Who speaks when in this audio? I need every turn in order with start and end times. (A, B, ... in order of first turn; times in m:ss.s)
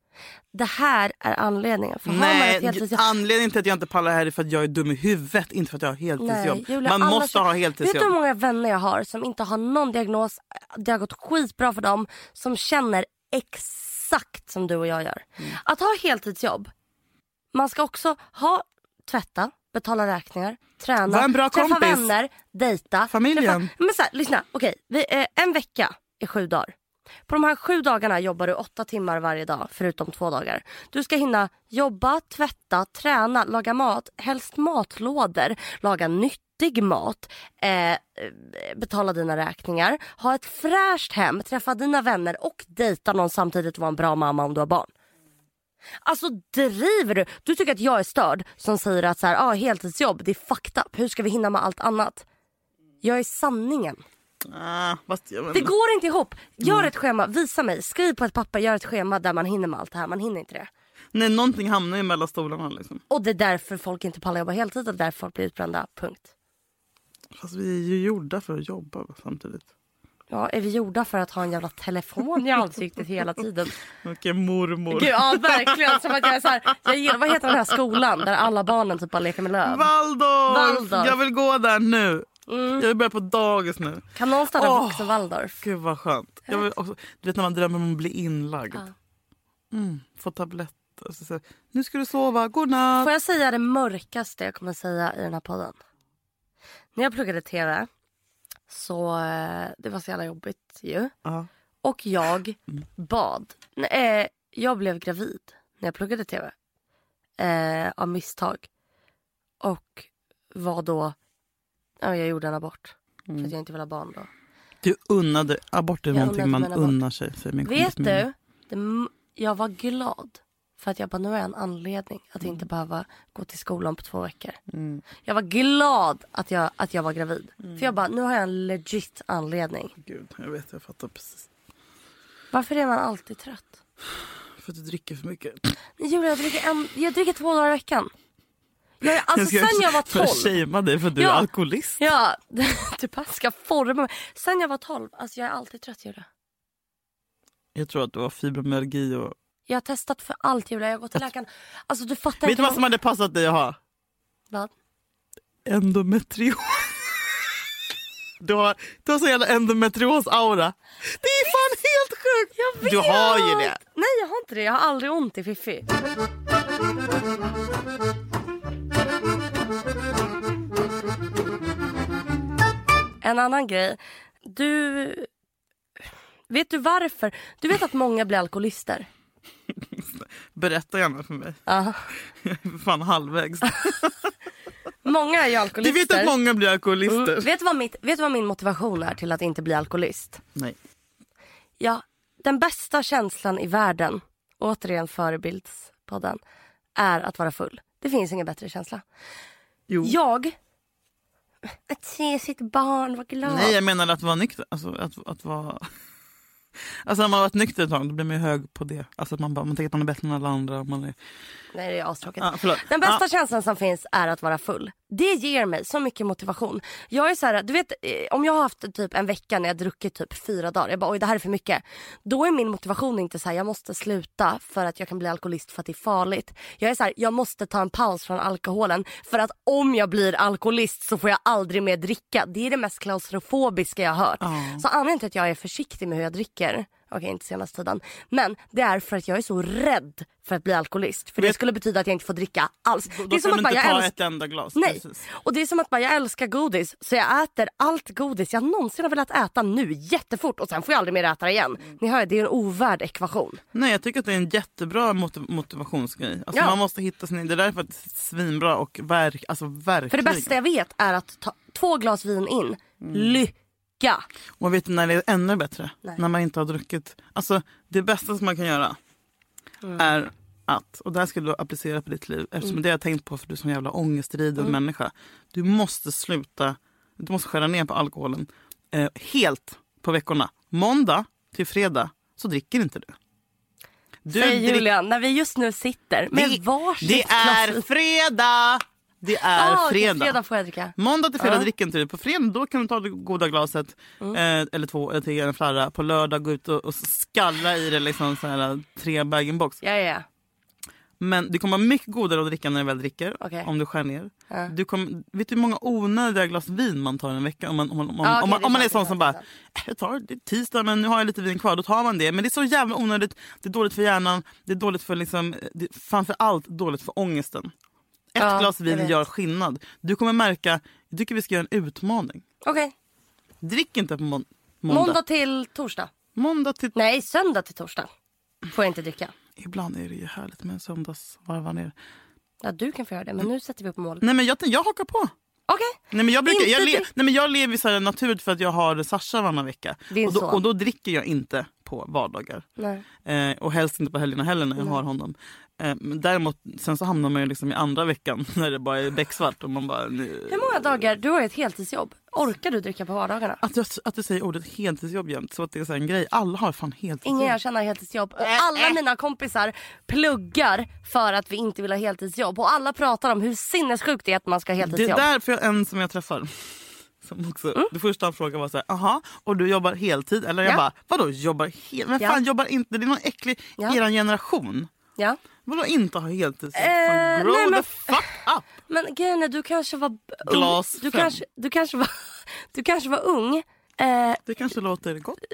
0:00.5-0:03.0 A
0:02.1-0:08.1 B
0:06.2-0:16.7 A
0:17.5-0:26.7 A
0:21.1-0:22.1 B
0:23.1-0:23.7 B
0:27.3-0:44.9 A
0:46.0-0:52.2 A
0:53.0-0:54.0 A
0:54.5-0:55.7 B
0:55.5-1:00.7 A
0:56.6-0:56.9 B
1:01.1-1:03.0 B
1:03.1-1:06.3 A
1:07.4-1:09.7 B
1:10.3-1:13.8 A
1:14.0-1:16.3 B
1:14.9-1:19.9 A
1:16.9-1:17.5 B
1:19.7-1:24.0 B
1:20.5-1:21.2 A
1:22.5-1:22.9 A
1:24.2-1:25.6 A
1:24.6-1:28.8 B
1:29.7-1:33.1 B
1:33.0-1:35.8 A
1:37.0-1:37.9 A
1:38.7-1:41.1 A
1:41.8-1:46.5 A
1:47.4-1:48.7 A
1:49.6-1:51.2 A
1:52.0-1:54.3 A
1:54.8-1:58.3 B
1:56.1-1:57.0 A
1:57.6-2:04.6 A
2:04.7-2:05.0 B
2:05.2-2:09.9 A
2:07.6-2:07.9 B
2:10.0-2:11.5 B
2:12.5-2:13.7 A
2:14.6-2:15.7 B
2:16.0-2:18.1 A
2:19.0-2:20.6 A
2:19.1-2:22.0 B
2:21.2-2:21.5 A
2:22.0-2:26.3 A
2:27.8-2:29.4 B
2:29.7-2:32.8 A
2:32.4-2:33.8 B
2:35.6-2:37.1 B
2:38.4-2:43.8 B
2:42.6-2:45.9 A
2:53.2-2:55.3 A
2:56.5-2:59.1 A
2:59.9-3:01.6 B
3:01.7-3:02.1 A
3:02.4-3:04.1 B
3:05.0-3:06.3 A
3:05.8-3:07.5 B
3:07.1-3:10.4 A
3:11.8-3:16.4 A
3:17.0-3:19.0 A
3:19.9-3:20.2 B
3:20.0-3:20.6 A
3:21.9-3:23.8 A
3:23.4-3:25.9 B
3:27.0-3:31.2 B
3:31.7-4:04.2 A
3:32.4-3:33.2 B
3:54.4-3:54.8 B
4:03.1-4:05.2 B
4:04.8-4:13.6 A
4:13.7-4:20.5 B
4:16.5-4:16.8 A
4:20.1-4:24.2 A
4:23.0-4:23.4 B
4:24.6-4:29.0 B
4:30.0-4:43.2 B
4:44.3-4:44.9 B
4:44.3-4:47.8 A
4:46.3-4:50.4 B
4:49.6-4:51.7 A
4:51.0-4:59.8 B
4:59.8-5:00.3 A
5:01.2-5:17.7 B
5:03.4-5:03.7 A
5:08.2-5:09.4 A
5:18.3-5:22.4 B
5:18.4-5:19.1 A
5:22.6-5:22.9 A
5:23.6-5:25.2 B
5:24.9-5:26.1 A
5:26.4-5:26.9 B
5:26.9-5:28.1 A
5:28.7-5:29.3 A
5:29.6-5:31.9 B
5:32.6-5:34.2 A
5:34.2-5:35.3 B
5:35.7-5:37.1 A
5:36.1-5:42.6 B
5:40.1-5:40.6 A
5:42.8-5:43.0 A
5:43.2-5:51.0 B
5:50.5-5:53.6 A
5:53.6-5:57.6 B
5:57.2-6:05.3 A
5:58.4-5:59.0 B
6:04.8-6:06.5 B
6:07.2-6:14.9 B
6:15.6-6:18.7 B
6:16.8-6:18.2 A
6:18.9-6:24.4 A
6:20.5-6:21.4 B
6:24.5-6:25.4 B